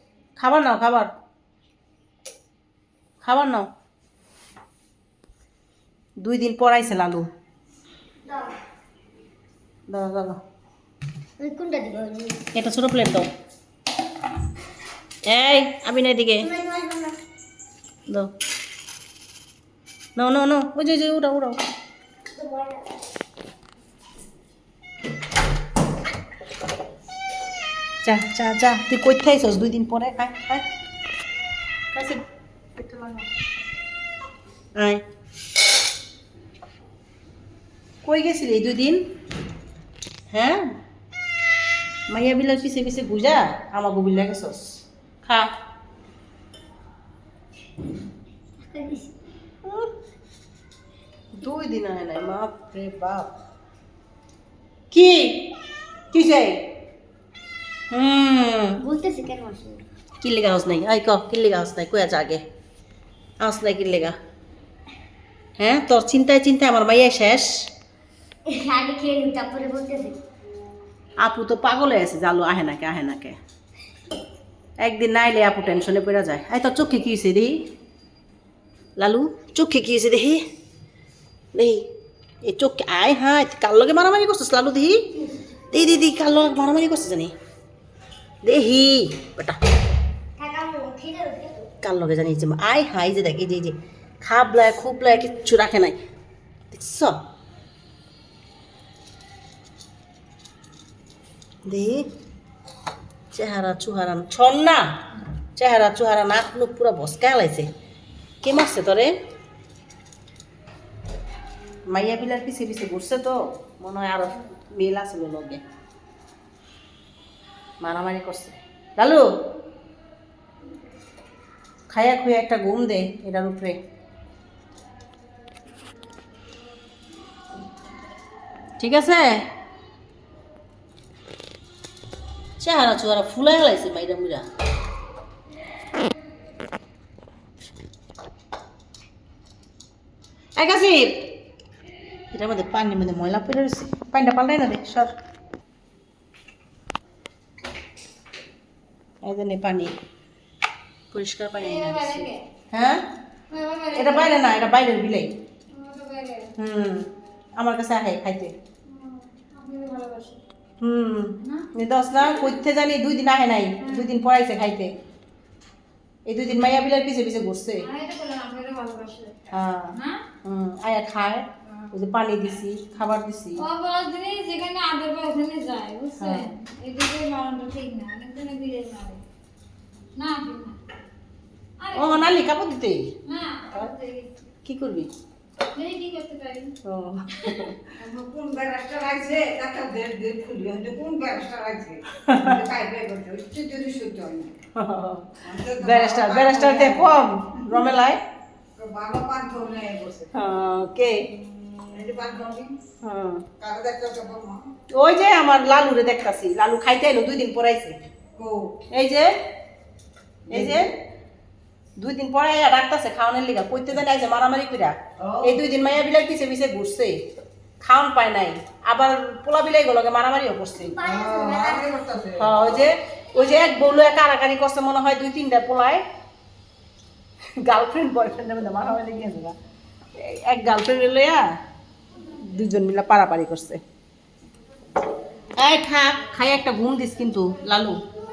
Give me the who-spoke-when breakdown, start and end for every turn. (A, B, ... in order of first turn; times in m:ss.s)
0:00.4-0:01.1 A
0:03.2-0:03.7 A
0:06.2-0:07.3 A
0:08.2-0:08.6 B
0:09.9-0:10.4 A
0:11.4-0:12.5 B
0:12.5-0:13.3 A
0:15.2-0:16.5 A
0:16.4-0:17.2 B
0:20.2-0:21.6 A
0:22.3-0:22.9 B
0:28.0-0:30.6 A
0:31.9-0:32.2 A
0:32.8-0:33.3 A
0:34.8-0:35.0 A
0:38.0-0:39.0 A
0:40.3-0:40.7 A
0:42.1-0:45.5 A
0:48.6-0:49.1 B
0:49.6-0:49.9 A
0:51.3-0:53.3 A
0:54.9-0:55.6 A
0:56.1-0:56.6 A
0:57.9-0:58.8 A
0:58.8-0:59.8 B
1:00.2-1:02.4 A
1:03.4-1:04.2 A
1:05.6-1:07.7 A
1:08.4-1:10.2 B
1:11.2-1:13.4 A
1:14.8-1:17.6 A
1:19.0-1:20.4 A
1:21.5-1:21.9 A
1:22.4-1:25.2 A
1:25.7-1:27.3 A
1:28.4-1:29.6 A
1:30.4-1:31.7 B
1:31.8-1:36.0 A
1:36.7-1:37.2 A
1:41.6-1:42.1 A
1:43.3-1:45.0 A
1:45.6-1:47.7 A
1:48.4-1:49.2 A
1:51.9-1:55.6 A
1:57.8-1:59.2 A
2:01.9-2:03.8 A
2:08.8-2:09.5 A
2:12.6-2:14.5 A
2:20.6-2:21.3 A
2:22.3-2:25.1 A
2:29.2-2:30.0 A
2:31.1-2:33.0 A
2:31.6-2:32.4 C
2:33.5-2:34.5 C
2:33.9-2:35.3 A
2:35.7-2:36.5 C
2:36.6-2:38.5 A
2:38.9-2:40.4 C
2:40.8-2:44.9 A
2:46.3-2:47.9 A
2:47.8-2:50.2 C
2:49.5-2:53.6 A
2:53.6-2:59.2 C
2:56.2-2:56.5 A
3:00.2-3:00.8 C
3:01.8-3:02.3 C
3:01.9-3:03.1 A
3:03.2-3:04.3 C
3:04.6-3:05.1 A
3:05.7-3:06.7 C
3:06.8-3:07.8 A
3:08.0-3:14.6 D
3:12.1-3:12.6 A
3:14.7-3:18.2 A
3:15.4-3:17.2 D
3:18.8-3:20.3 D
3:20.3-3:21.2 A
3:21.9-3:22.8 D
3:23.0-3:23.4 A
3:23.6-3:24.7 D
3:24.9-3:28.0 A
3:28.4-3:28.8 D
3:28.9-3:29.3 A
3:30.5-3:30.9 A
3:30.5-3:30.8 D
3:32.0-3:37.2 A
3:37.8-3:41.0 A
3:40.9-3:42.0 B
3:41.1-3:42.6 D
3:42.4-3:46.0 A
3:47.6-3:49.5 A
3:50.2-3:51.4 A
3:52.3-3:53.8 A
3:55.6-3:58.0 A